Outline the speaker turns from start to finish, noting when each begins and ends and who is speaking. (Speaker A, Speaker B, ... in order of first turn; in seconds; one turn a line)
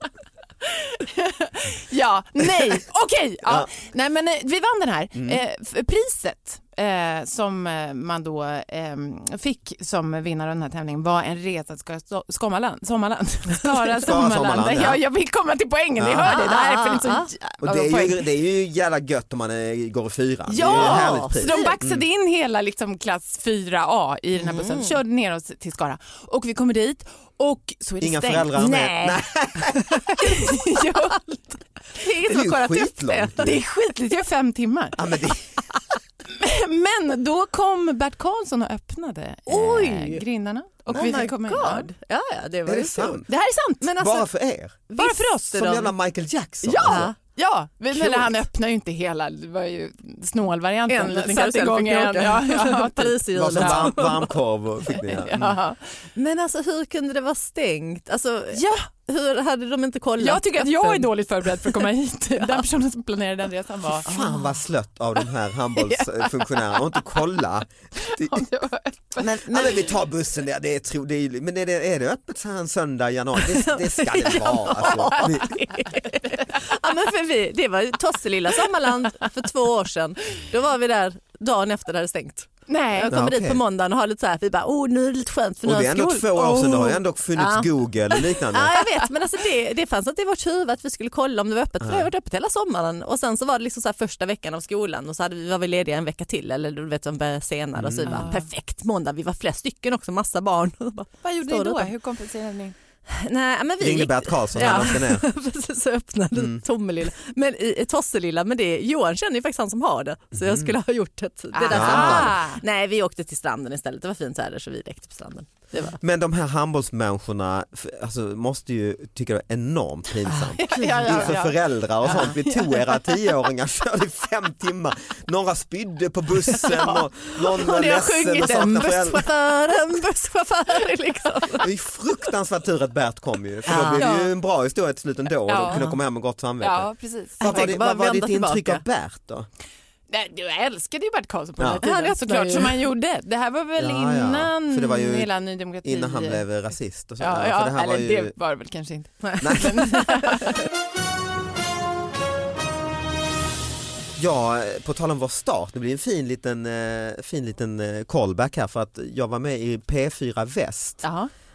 Speaker A: 0.7-18.2
Speaker B: 3.4-3.7
Speaker B: 5.1-5.4
Speaker B: 14.0-15.0
Speaker B: 16.0-16.4
Speaker C: 16.2-17.3
Speaker B: 17.6-22.0
Speaker A: 20.5-29.1
Speaker C: 20.6-21.7
Speaker C: 24.4-24.9
Speaker B: 28.0-30.1
Speaker C: 28.6-29.1
Speaker A: 30.1-35.0
Speaker B: 32.1-33.6
Speaker B: 35.0-35.5
Speaker A: 36.3-41.9
Speaker C: 39.5-40.2
Speaker C: 40.9-43.2
Speaker B: 42.6-43.3
Speaker A: 43.3-43.8
Speaker C: 43.8-44.2
Speaker B: 43.9-44.9
Speaker C: 44.9-45.8
Speaker A: 45.0-45.8
Speaker B: 45.5-47.1
Speaker A: 46.6-54.0
Speaker C: 46.8-47.2
Speaker C: 50.9-54.3
Speaker B: 53.3-55.6
Speaker A: 55.2-55.8
Speaker C: 56.1-61.1
Speaker A: 58.5-58.9
Speaker A: 60.2-64.1
Speaker C: 62.4-62.6
Speaker C: 64.1-64.4
Speaker B: 64.1-68.5
Speaker A: 65.8-66.8
Speaker A: 68.0-69.9
Speaker B: 69.2-75.6
Speaker C: 73.4-87.7
Speaker A: 74.8-75.3
Speaker A: 76.0-76.4
Speaker A: 82.7-83.1
Speaker B: 83.1-83.6
Speaker B: 85.6-88.8
Speaker C: 88.4-101.9
Speaker B: 91.8-92.1
Speaker B: 97.8-98.3
Speaker A: 98.0-98.5
Speaker A: 101.2-102.7
Speaker C: 103.1-116.0
Speaker B: 103.8-105.3
Speaker B: 106.3-106.6
Speaker B: 110.3-110.7
Speaker A: 111.5-112.6
Speaker B: 111.7-112.4
Speaker B: 116.0-129.3
Speaker C: 120.3-121.3
Speaker A: 120.6-123.2
Speaker C: 122.0-122.3
Speaker A: 126.7-127.0
Speaker A: 127.6-128.8
Speaker C: 128.3-131.7
Speaker B: 131.6-139.5
Speaker C: 133.7-134.1
Speaker A: 134.0-134.3
Speaker A: 135.5-135.8
Speaker C: 135.6-136.0
Speaker A: 136.6-137.7
Speaker C: 137.4-138.8
Speaker A: 140.1-146.5
Speaker C: 141.8-142.8
Speaker B: 143.8-145.3
Speaker B: 145.8-148.3
Speaker A: 147.2-150.5
Speaker B: 149.4-149.9
Speaker C: 149.9-150.2
Speaker B: 154.2-161.0
Speaker A: 161.0-161.3